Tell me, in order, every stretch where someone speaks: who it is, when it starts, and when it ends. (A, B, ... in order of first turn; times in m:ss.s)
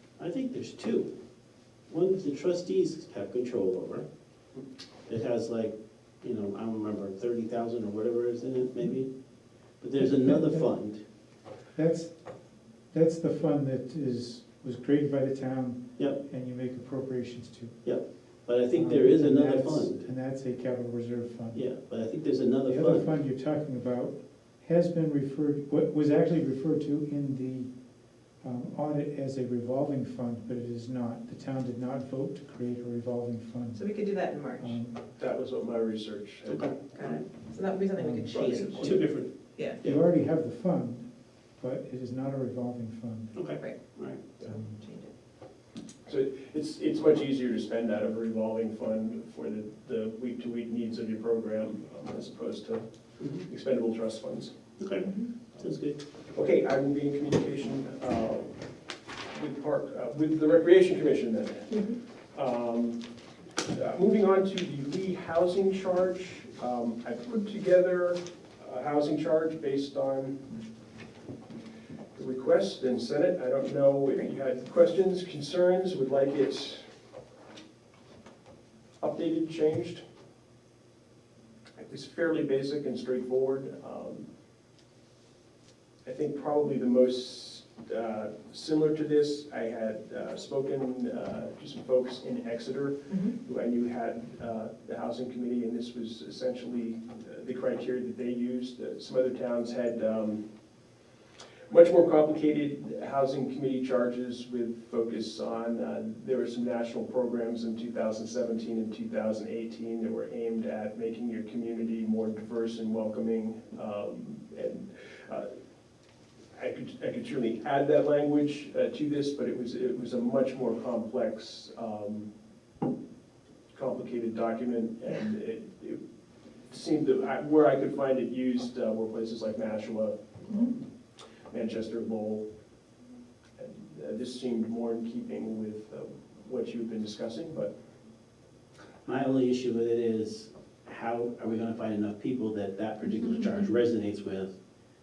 0:00.2-0:01.1 A
0:01.9-0:04.0 A
0:05.1-0:09.1 A
0:09.8-0:11.0 A
0:10.2-0:10.6 B
0:11.7-0:12.2 B
0:12.9-0:17.8 B
0:17.8-0:20.1 A
0:18.7-0:21.6 B
0:21.5-0:23.1 A
0:22.7-0:27.7 B
0:28.4-0:33.9 B
0:33.7-0:34.8 C
0:34.6-0:35.0 B
0:35.2-0:36.8 D
0:36.4-0:37.2 A
0:36.9-0:39.8 C
0:38.0-0:38.4 B
0:38.3-0:40.0 A
0:38.4-0:39.0 D
0:39.8-0:43.4 B
0:43.3-0:44.2 A
0:43.6-0:45.1 C
0:46.0-0:54.5 D
0:54.8-0:56.0 A
0:56.3-0:58.6 D
0:59.3-1:03.0 D
1:03.7-1:10.4 D
1:12.1-1:16.8 D
1:19.0-1:20.0 D
1:21.8-1:24.3 D
1:26.0-1:40.4 D
1:41.7-1:55.5 D
1:56.5-2:02.3 D
2:03.7-2:06.0 D
2:06.7-2:10.8 D
2:11.5-2:12.4 D
2:13.6-2:17.7 D
2:19.0-2:24.6 A